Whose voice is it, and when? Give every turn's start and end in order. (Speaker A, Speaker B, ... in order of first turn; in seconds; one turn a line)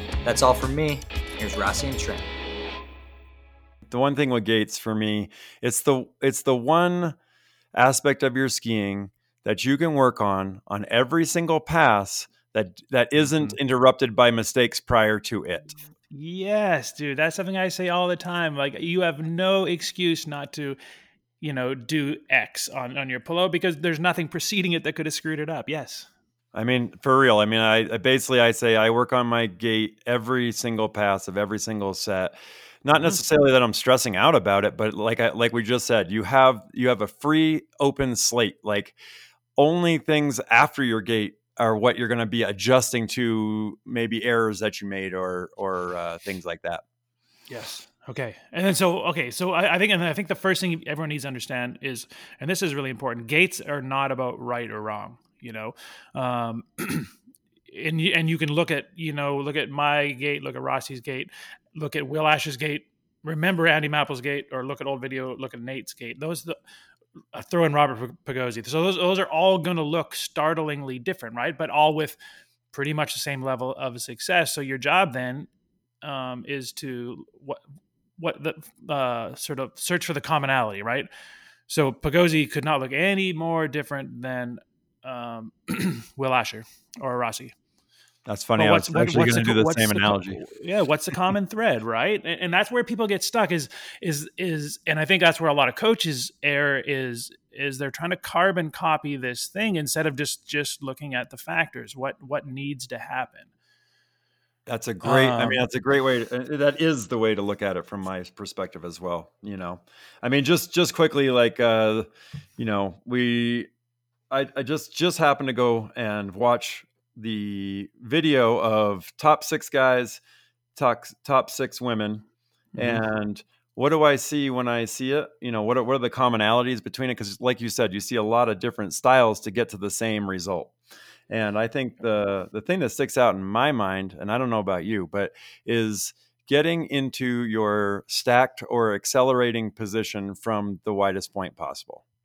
Speaker A: 0.2-2.3
Speaker B: 3.8-7.2
Speaker B: 7.7-15.8
Speaker C: 16.1-20.8
Speaker C: 21.4-26.1
Speaker B: 26.5-38.9
Speaker B: 39.6-46.8
Speaker C: 47.5-57.1
Speaker C: 57.7-66.6
Speaker C: 67.3-72.2
Speaker C: 72.7-75.5
Speaker C: 76.0-77.6
Speaker C: 78.2-81.1
Speaker C: 81.7-87.5
Speaker B: 88.2-90.4
Speaker C: 88.5-103.5
Speaker B: 104.7-112.1
Speaker C: 105.0-105.6
Speaker B: 112.6-113.7
Speaker B: 114.3-120.2
Speaker B: 120.7-122.2
Speaker C: 122.7-123.0
Speaker B: 122.8-130.7
Speaker B: 131.3-142.0